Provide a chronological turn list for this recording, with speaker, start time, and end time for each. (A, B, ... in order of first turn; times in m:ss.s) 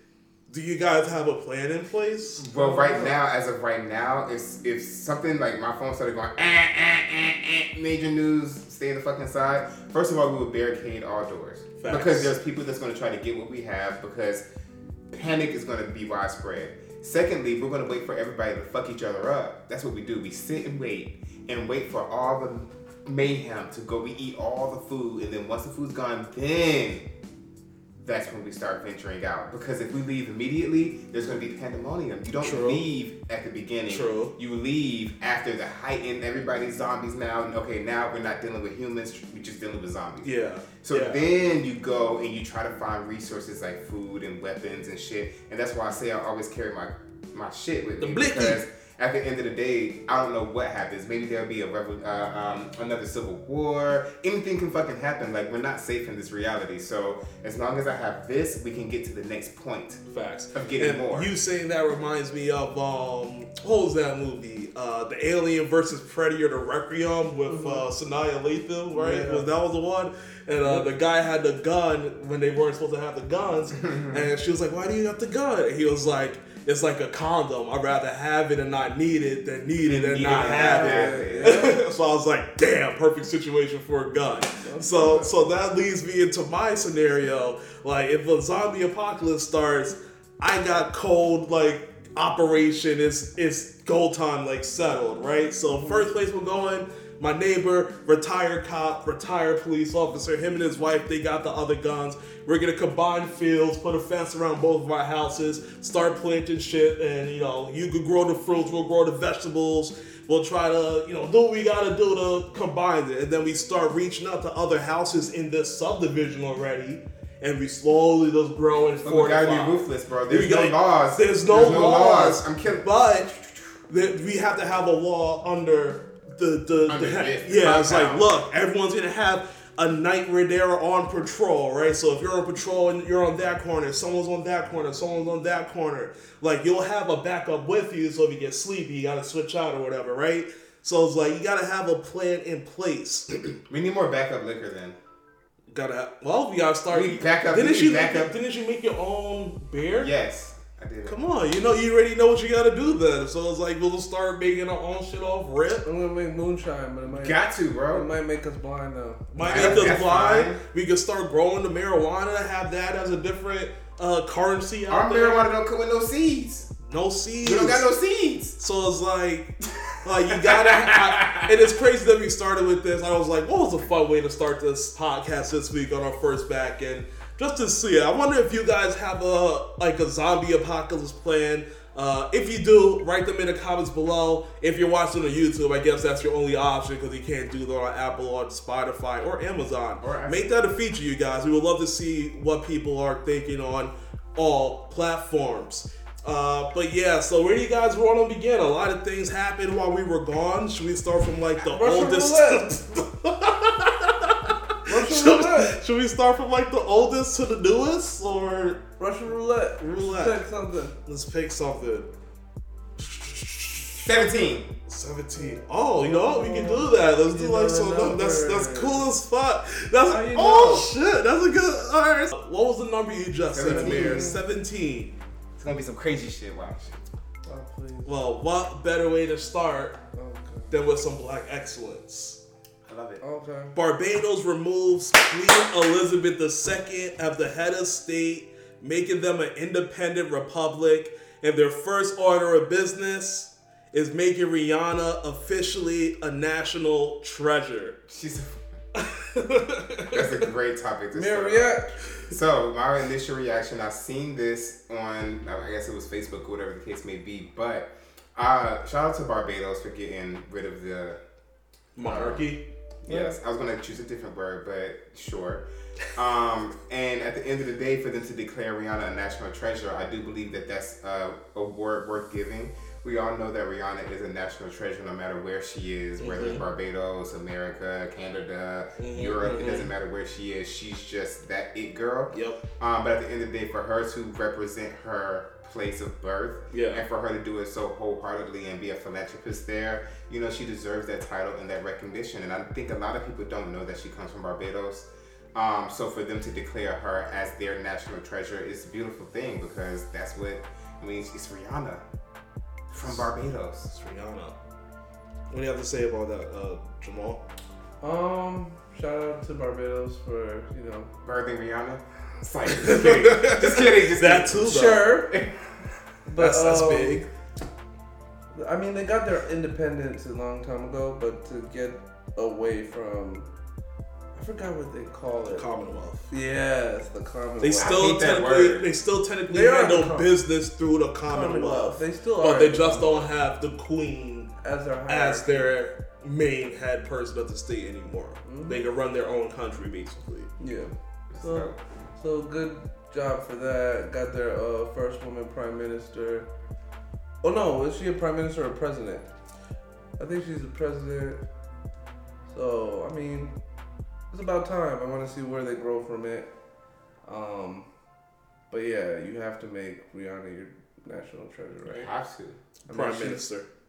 0:00.5-0:02.4 A
0:02.4-0:14.4 B
0:02.5-0:03.2 C
0:11.8-0:12.3 A
0:15.1-0:27.1 B
0:28.0-0:40.3 B
0:32.4-0:32.8 A
0:33.9-0:34.3 A
0:40.2-0:41.3 A
0:40.8-1:00.0 B
0:48.0-0:48.6 A
1:00.1-2:03.3 A
1:00.5-1:01.3 B
1:07.5-1:07.8 C
1:08.9-1:09.5 C
1:13.8-1:14.3 B
1:19.8-1:21.7 B
1:20.3-1:21.8 C
1:24.6-1:25.4 C
1:35.7-1:36.1 C
1:59.0-2:03.8 B
2:03.9-2:23.5 A
2:06.9-2:08.3 B
2:23.7-2:25.0 B
2:25.7-2:30.1 A
2:26.9-2:28.3 B
2:30.0-2:31.2 B
2:31.1-2:35.9 A
2:35.8-2:40.0 C
2:37.1-2:38.1 B
2:39.3-2:45.5 A
2:39.5-2:40.6 B
2:44.9-2:46.7 B
2:46.9-2:47.9 A
2:47.4-2:48.6 B
2:48.6-3:28.8 A
2:50.3-2:51.5 B
3:10.0-3:10.4 B
3:21.6-3:22.7 C
3:24.9-3:25.8 C
3:29.0-3:30.9 C
3:29.8-3:30.4 A
3:31.0-3:32.1 A
3:33.0-3:45.1 A
3:34.0-3:34.7 B
3:36.0-3:39.0 C
3:40.0-3:40.9 C
3:43.5-3:44.3 B
3:43.7-3:44.4 C
3:45.6-3:47.0 B
3:47.5-3:48.1 C
3:48.0-3:50.0 A
3:50.1-3:50.7 C
3:50.7-3:52.4 A
3:52.9-3:53.2 B
3:53.2-3:53.8 C
3:53.8-4:08.0 A
4:08.1-4:08.6 B
4:09.0-4:10.4 A
4:10.1-4:21.2 B
4:11.1-4:12.0 C
4:22.0-4:22.6 A
4:22.0-4:22.5 B
4:23.1-4:23.4 C
4:23.1-5:02.0 B
4:36.2-4:36.6 A
4:39.0-4:39.9 A
4:42.3-4:42.6 A
4:46.7-4:47.0 A
5:02.9-5:03.9 B
5:03.9-5:04.6 A
5:05.5-5:07.4 A
5:08.0-5:11.1 C
5:11.2-5:14.8 B
5:12.7-5:15.0 A
5:14.6-5:15.4 C
5:16.3-5:17.3 C
5:16.4-5:17.3 A
5:18.6-5:23.5 C
5:24.4-5:25.7 C
5:25.5-5:26.2 A
5:26.3-5:28.1 C
5:27.6-5:34.5 A
5:27.8-5:28.8 B
5:29.5-5:30.3 C
5:31.3-5:33.2 C
5:34.6-5:35.7 C
5:35.1-5:40.5 A
5:38.4-5:38.8 C
5:40.6-5:46.5 C
5:41.3-5:41.8 B
5:47.4-5:49.3 C
5:50.2-5:51.4 C
5:52.5-5:53.5 C
5:54.3-5:56.5 C
5:57.2-5:57.9 C
5:58.7-6:02.1 C
6:01.9-6:02.6 B
6:02.9-6:03.4 C
6:02.9-6:03.7 A